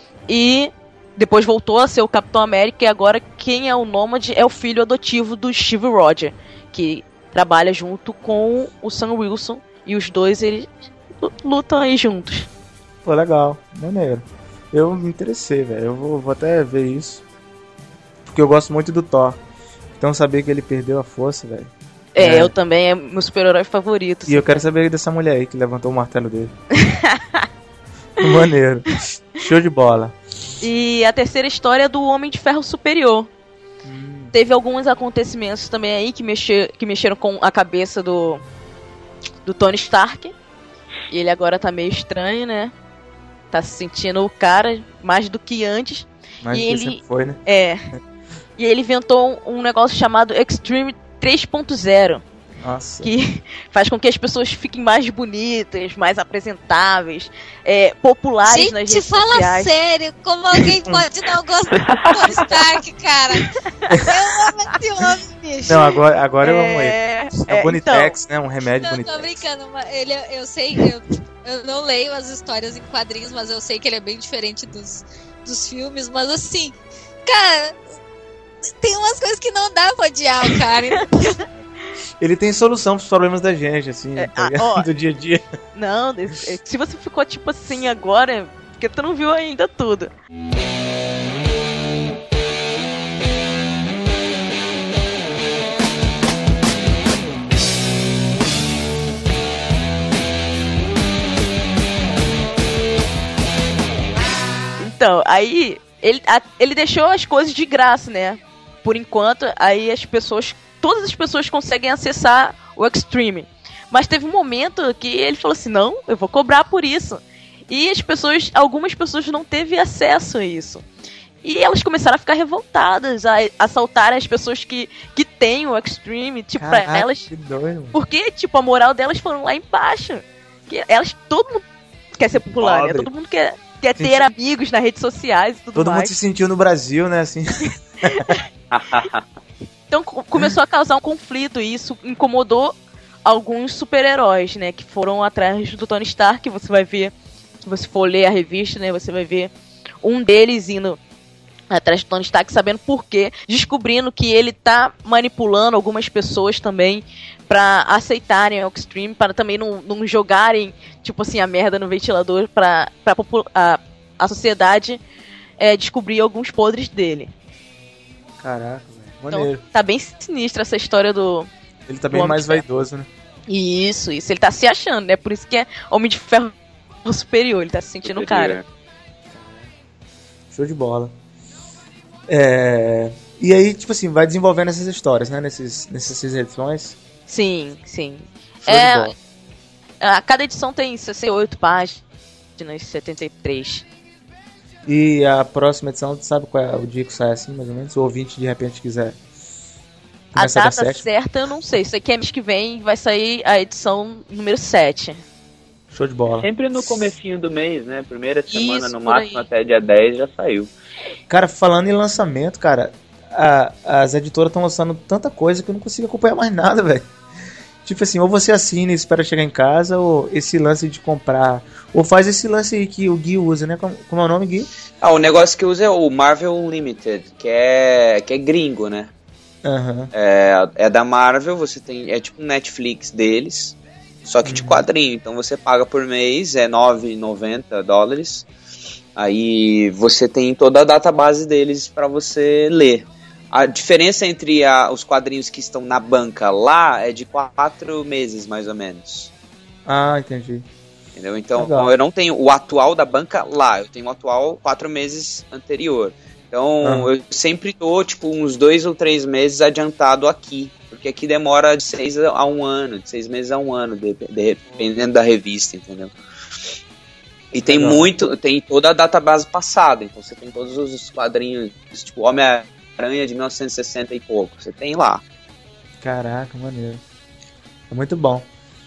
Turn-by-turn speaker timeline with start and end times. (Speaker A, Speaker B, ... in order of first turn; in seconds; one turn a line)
Speaker A: 0.3-12.5
Speaker B: 13.0-17.2
Speaker B: 18.3-19.4
Speaker B: 20.0-22.5
Speaker A: 22.1-24.6
Speaker B: 24.3-26.6
Speaker A: 26.8-27.5
Speaker B: 28.2-30.2
Speaker A: 30.6-33.3
Speaker B: 33.8-34.3
Speaker A: 34.3-38.4
Speaker A: 39.4-40.3
Speaker A: 41.1-42.7
Speaker A: 43.5-47.8
Speaker B: 46.4-47.4
Speaker A: 48.6-52.2
Speaker B: 52.6-53.1
Speaker A: 53.0-59.7
Speaker C: 58.4-63.4
Speaker C: 64.1-65.7
Speaker B: 65.7-69.4
Speaker A: 66.4-68.1
Speaker C: 68.8-77.8
Speaker C: 78.8-81.4
Speaker B: 82.2-85.4
Speaker A: 84.2-84.9
Speaker A: 85.7-90.1
Speaker A: 104.8-120.8
Speaker A: 121.4-127.3
Speaker B: 126.6-128.0
Speaker A: 127.9-131.7
Speaker A: 132.2-136.1
Speaker B: 132.6-133.1
Speaker B: 133.9-134.3
Speaker B: 135.8-138.3
Speaker A: 138.1-138.4
Speaker D: 138.7-139.2
Speaker A: 139.9-147.1
Speaker A: 147.6-151.0
Speaker A: 151.7-165.0
Speaker A: 165.6-167.3
Speaker B: 168.4-169.6
Speaker A: 169.3-171.5
Speaker B: 171.9-173.1
Speaker A: 172.1-172.6
Speaker A: 173.5-176.5
Speaker A: 177.1-178.6
Speaker D: 178.1-178.6
Speaker B: 179.3-179.7
Speaker B: 180.5-181.1
Speaker B: 182.3-187.0
Speaker A: 187.3-189.1
Speaker B: 188.6-189.1
Speaker A: 190.0-192.0
Speaker A: 192.6-193.9
Speaker B: 194.8-199.2
Speaker A: 200.3-205.2
Speaker B: 200.3-201.1
Speaker B: 205.9-206.5
Speaker D: 206.4-210.7
Speaker A: 208.5-209.5
Speaker B: 211.3-217.1
Speaker B: 217.8-224.7
Speaker D: 225.0-229.1
Speaker B: 229.6-230.1
Speaker D: 230.1-238.5
Speaker B: 234.4-234.8
Speaker D: 239.2-249.3
Speaker B: 249.9-250.7
Speaker D: 251.1-266.1
Speaker B: 251.6-251.9
Speaker B: 256.8-257.1
Speaker D: 267.5-275.2
Speaker B: 267.6-268.1
Speaker B: 276.0-277.0
Speaker B: 277.9-278.5